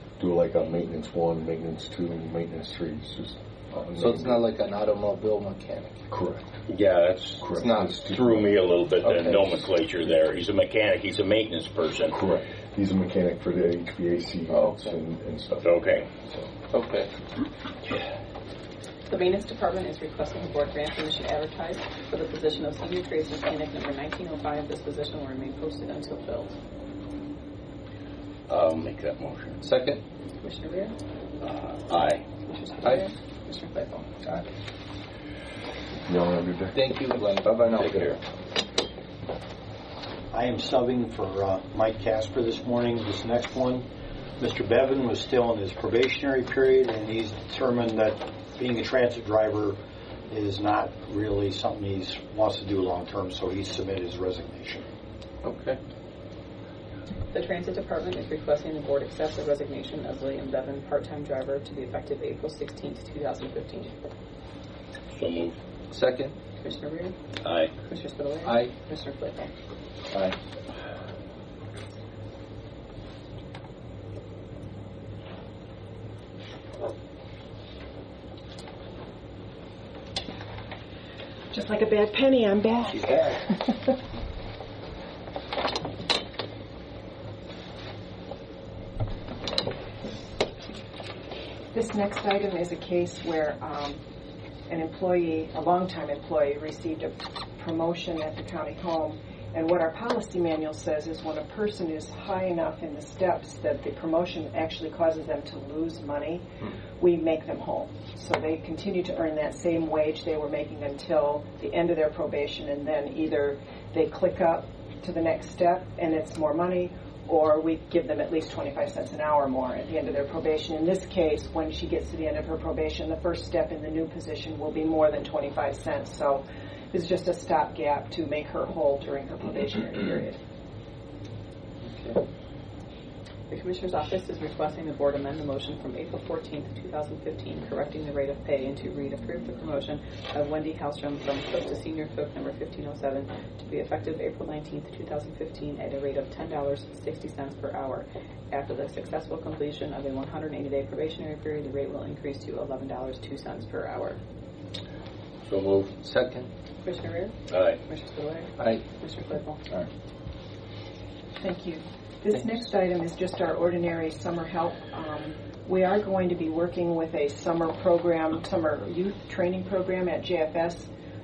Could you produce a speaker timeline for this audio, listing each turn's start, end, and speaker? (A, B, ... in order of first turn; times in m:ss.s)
0:00.2-0:04.5 A
0:04.0-0:06.0 B
0:06.1-0:06.6 A
0:06.7-0:07.5 C
0:07.4-0:08.5 A
0:07.5-0:08.0 B
0:08.0-0:12.2 C
0:09.0-0:09.6 B
0:12.1-0:16.5 A
0:14.5-0:15.0 B
0:15.6-0:16.1 C
0:16.7-0:17.1 B
0:19.1-0:26.6 D
0:28.5-0:29.6 C
0:29.6-0:30.0 B
0:30.4-0:31.0 D
0:31.4-0:32.2 C
0:32.4-0:34.1 D
0:36.0-0:36.8 A
0:36.7-0:38.1 B
0:37.5-0:38.0 A
0:37.7-0:38.2 C
0:40.3-0:54.8 E
0:55.4-0:55.8 B
0:57.3-1:03.9 D
1:05.1-1:05.6 C
1:05.9-1:06.3 B
1:06.6-1:07.2 D
1:07.4-1:07.7 C
1:07.8-1:09.5 D
1:08.4-1:08.7 B
1:10.1-1:10.4 B
1:21.5-1:23.9 F
1:31.7-1:34.0 F
1:34.7-1:46.5 F
1:47.0-2:10.4 F
2:11.9-2:12.2 B
2:13.5-2:34.2 D
2:35.4-2:35.9 C
2:36.0-2:36.5 B
2:36.8-2:37.4 D
2:37.5-2:37.8 C
2:37.9-2:39.6 D
2:38.6-2:38.8 B
2:41.4-2:50.9 F